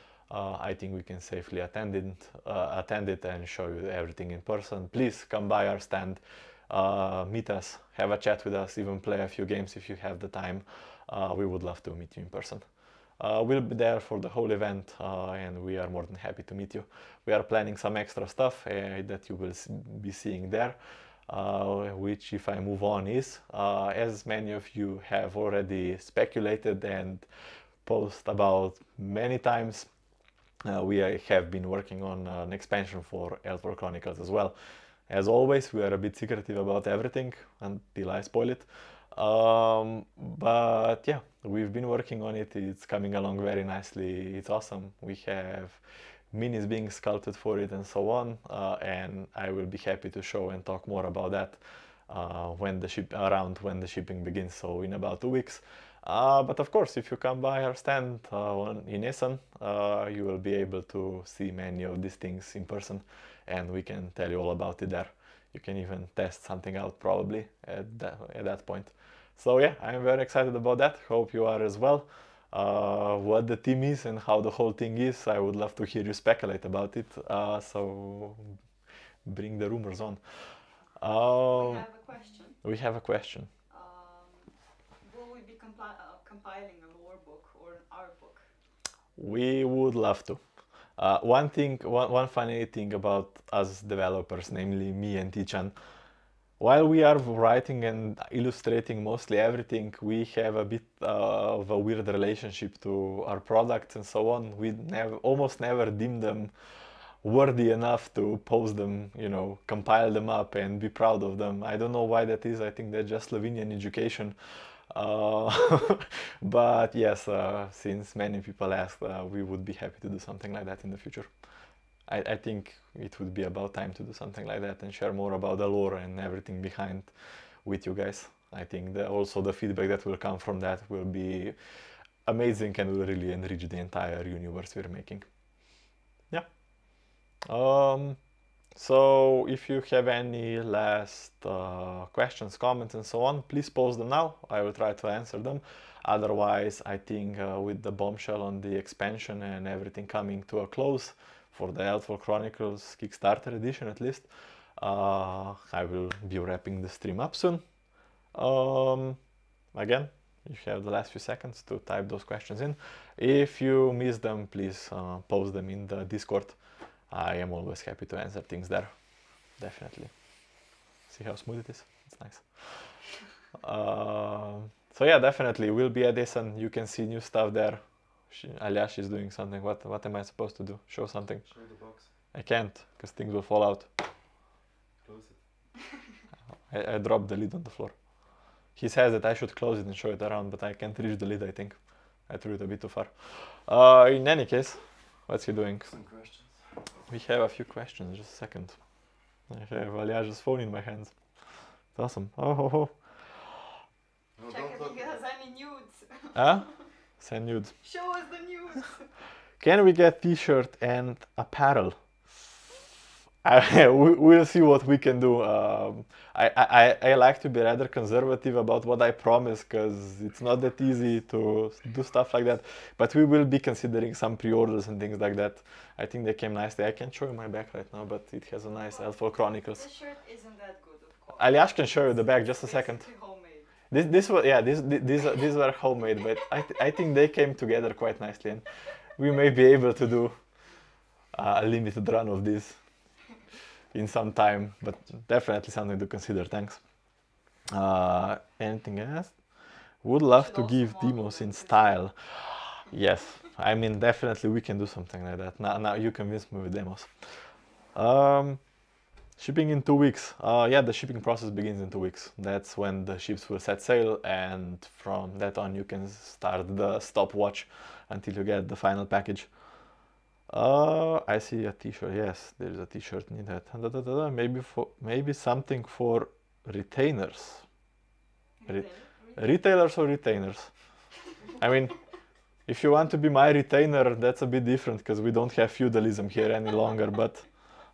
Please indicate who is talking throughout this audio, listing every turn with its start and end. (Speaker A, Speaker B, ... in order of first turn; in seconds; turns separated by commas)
Speaker A: 0.3-12.6, Speaker A: 13.2-20.8, Speaker A: 21.3-27.2, Speaker A: 27.8-29.9, Speaker A: 30.6-34.5, Speaker A: 35.1-45.8, Speaker A: 46.3-78.6, Speaker A: 79.2-81.9, Speaker B: 81.5-82.6, Speaker A: 82.6-83.5, Speaker B: 83.7-88.5, Speaker A: 89.2-90.4, Speaker A: 91.0-95.7, Speaker A: 96.6-106.5, Speaker A: 107.2-114.3, Speaker A: 114.9-121.3, Speaker A: 122.1-127.1, Speaker A: 127.6-131.6, Speaker A: 132.2-135.2, Speaker A: 137.5-138.2, Speaker A: 138.7-157.6, Speaker A: 158.3-159.2, Speaker A: 159.7-166.6, Speaker A: 167.1-168.9, Speaker A: 169.6-170.1, Speaker A: 171.1-172.9, Speaker A: 173.6-181.4, Speaker C: 181.5-182.1, Speaker A: 182.3-183.9, Speaker C: 185.0-185.4, Speaker A: 186.7-187.9, Speaker A: 188.7-195.9, Speaker C: 195.9-196.5, Speaker A: 197.1-198.8, Speaker A: 199.5-201.2, Speaker A: 201.9-203.0, Speaker C: 204.4-205.1, Speaker B: 204.4-206.8, Speaker A: 206.3-206.7, Speaker A: 207.2-207.7, Speaker B: 207.8-209.1, Speaker A: 209.6-211.9, Speaker A: 213.4-229.9, Speaker B: 228.8-233.7, Speaker A: 231.4-233.1, Speaker A: 233.9-238.6, Speaker A: 239.2-240.4, Speaker A: 241.3-242.8, Speaker A: 243.9-246.8, Speaker A: 247.7-249.4, Speaker A: 250.0-257.3, Speaker B: 250.3-252.0, Speaker A: 257.9-258.6, Speaker A: 259.4-269.5, Speaker A: 270.5-277.6, Speaker B: 278.6-279.6, Speaker A: 278.7-280.7, Speaker A: 281.6-281.9, Speaker A: 282.6-287.4